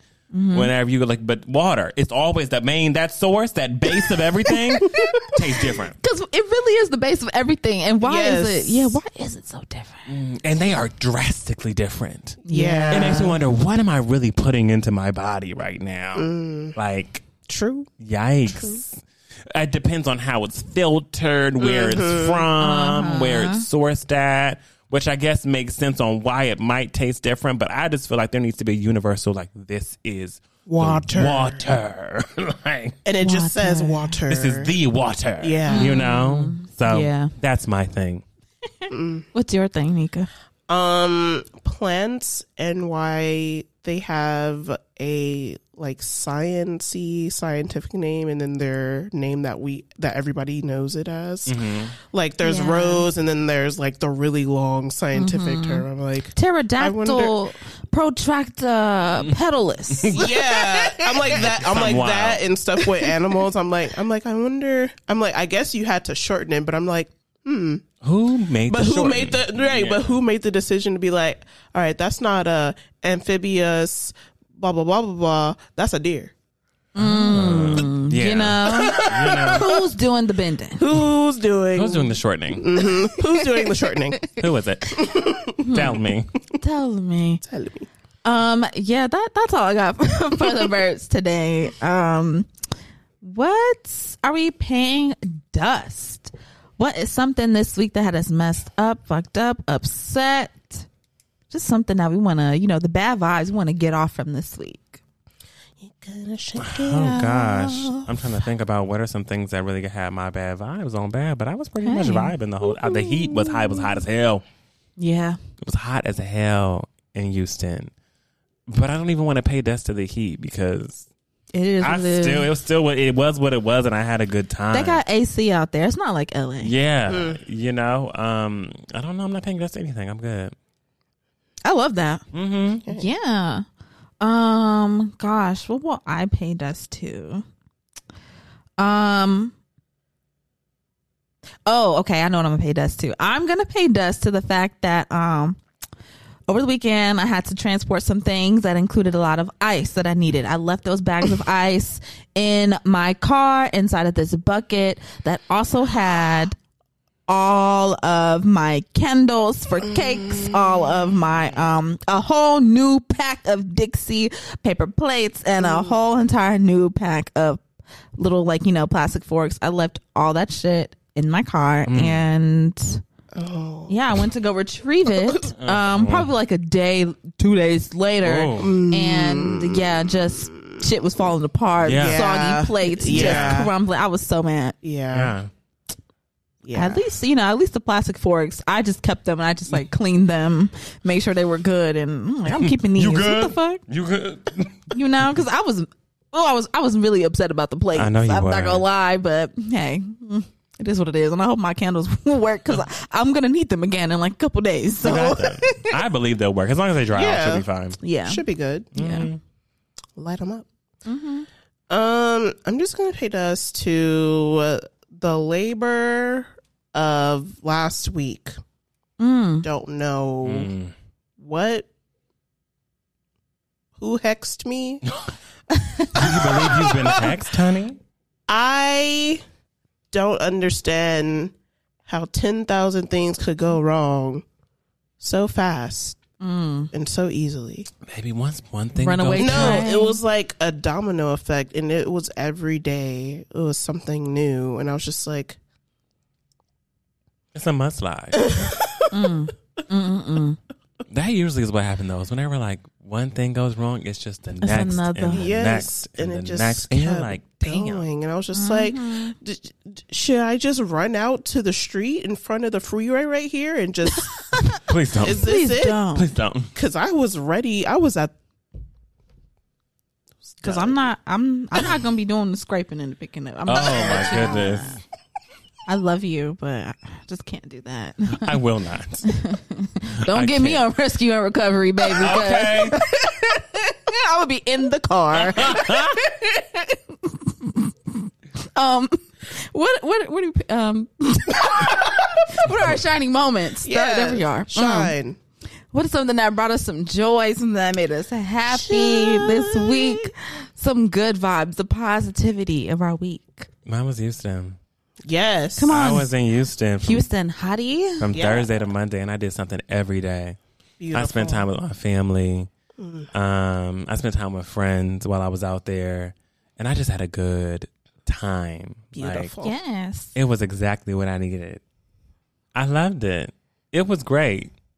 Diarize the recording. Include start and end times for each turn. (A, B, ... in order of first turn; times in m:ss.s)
0:00.3-0:00.7 A
0:00.5-0:06.0 B
0:04.8-0:05.3 A
0:04.9-0:05.3 C
0:06.0-0:10.1 A
0:08.0-0:09.0 C
0:10.1-0:17.3 B
0:12.4-0:13.3 A
0:12.5-0:13.4 C
0:16.1-0:16.8 C
0:17.5-0:17.9 C
0:18.0-0:33.0 B
0:21.6-0:22.4 C
0:22.6-0:23.6 A
0:30.6-0:31.6 C
0:33.0-0:34.7 C
0:33.2-0:34.1 A
0:34.3-0:38.2 B
0:35.4-0:36.0 C
0:35.7-0:37.3 A
0:38.9-0:39.3 C
0:39.3-0:40.3 A
0:40.7-0:57.4 C
0:51.4-0:51.9 B
0:52.4-0:53.0 A
0:55.1-0:55.8 A
0:56.3-1:01.2 A
0:59.9-1:00.3 B
1:00.1-1:07.8 C
1:01.3-1:02.4 B
1:08.0-1:10.2 B
1:08.7-1:16.3 C
1:16.9-1:19.7 B
1:17.0-1:20.8 A
1:18.7-1:19.7 C
1:20.8-1:24.3 C
1:21.7-1:22.7 B
1:24.4-1:26.3 B
1:24.9-1:25.6 C
1:25.6-1:26.0 A
1:26.6-1:27.4 A
1:27.4-1:27.9 C
1:28.2-1:32.5 A
1:33.2-1:40.9 A
1:41.5-1:45.0 A
1:45.8-1:47.8 C
1:46.6-1:54.4 B
1:47.0-1:48.0 A
1:51.8-1:52.3 A
1:55.0-1:55.4 A
1:55.6-1:57.9 B
1:58.7-2:01.1 B
2:01.5-2:02.5 A
2:01.8-2:05.0 B
2:04.7-2:06.7 A
2:06.6-2:10.5 B
2:07.1-2:07.4 C
2:11.6-2:12.2 A
2:12.3-2:12.8 B
2:12.9-2:13.6 A
2:14.2-2:17.4 A
2:18.8-2:19.5 A
2:21.6-2:25.6 A
2:26.5-2:36.6 A
2:37.3-2:47.6 A
2:39.9-2:41.0 C
2:45.6-2:45.9 C
2:48.2-2:53.0 A
2:51.9-2:52.2 B
2:53.3-2:54.0 C
2:53.9-3:04.8 A
2:55.6-2:56.3 B
2:58.2-2:58.7 B
2:58.6-3:00.8 C
3:01.8-3:02.3 B
3:01.9-3:03.7 C
3:03.1-3:03.7 B
3:04.8-3:05.3 C
3:05.1-3:05.5 B
3:06.6-3:07.0 C
3:06.7-3:13.8 A
3:12.5-3:14.9 B
3:14.9-3:25.9 A
3:17.9-3:18.8 B
3:25.0-3:28.0 B
3:27.1-3:27.6 C
3:28.0-3:28.4 A
3:28.2-3:28.9 C
3:28.9-3:29.3 A
3:28.9-3:29.4 B
3:30.2-3:30.6 C
3:31.0-3:31.5 A
3:31.9-3:38.5 C
3:39.2-3:39.6 A
3:39.6-3:40.7 C
3:40.4-3:40.9 B
3:41.4-3:41.9 C
3:44.0-3:45.0 C
3:45.8-3:46.3 A
3:46.1-3:48.0 B
3:46.2-3:47.3 C
3:48.5-3:49.4 C
3:50.1-3:51.5 C
3:52.1-3:54.4 C
3:55.2-3:56.2 C
3:56.4-3:56.9 A
3:56.9-3:57.9 C
3:58.0-3:59.8 B
3:59.0-4:00.2 A
3:59.4-4:05.6 C
4:07.5-4:08.7 B
4:08.4-4:09.0 C
4:09.1-4:10.6 A
4:11.1-4:18.0 B
4:14.6-4:15.5 A
4:15.3-4:24.5 C
4:18.5-4:19.3 A
4:24.4-4:26.3 A
4:24.9-4:25.5 B
4:25.2-4:26.0 C
4:26.1-4:26.7 B
4:26.7-4:28.3 C
4:30.5-4:31.0 C
4:30.6-4:35.0 A
4:33.7-4:35.0 B
4:35.9-4:38.6 A
4:38.3-4:39.3 B
4:39.2-4:55.1 A
4:40.2-4:40.8 B
4:42.1-4:43.0 B
4:45.3-4:46.2 B
4:53.8-4:55.4 C
4:55.9-5:03.7 A
4:58.7-5:00.3 C
5:03.8-5:04.8 B
5:05.2-5:05.9 C
5:05.8-5:06.3 A
5:05.9-5:07.3 B
5:07.0-5:08.3 A
5:08.2-5:10.6 B
5:08.3-5:08.7 C
5:11.0-5:11.7 C
5:11.1-5:12.7 B
5:13.0-5:13.3 C
5:13.3-5:19.5 B
5:19.1-5:19.8 C
5:19.6-5:20.3 A
5:20.3-5:21.8 B
5:22.7-5:24.7 B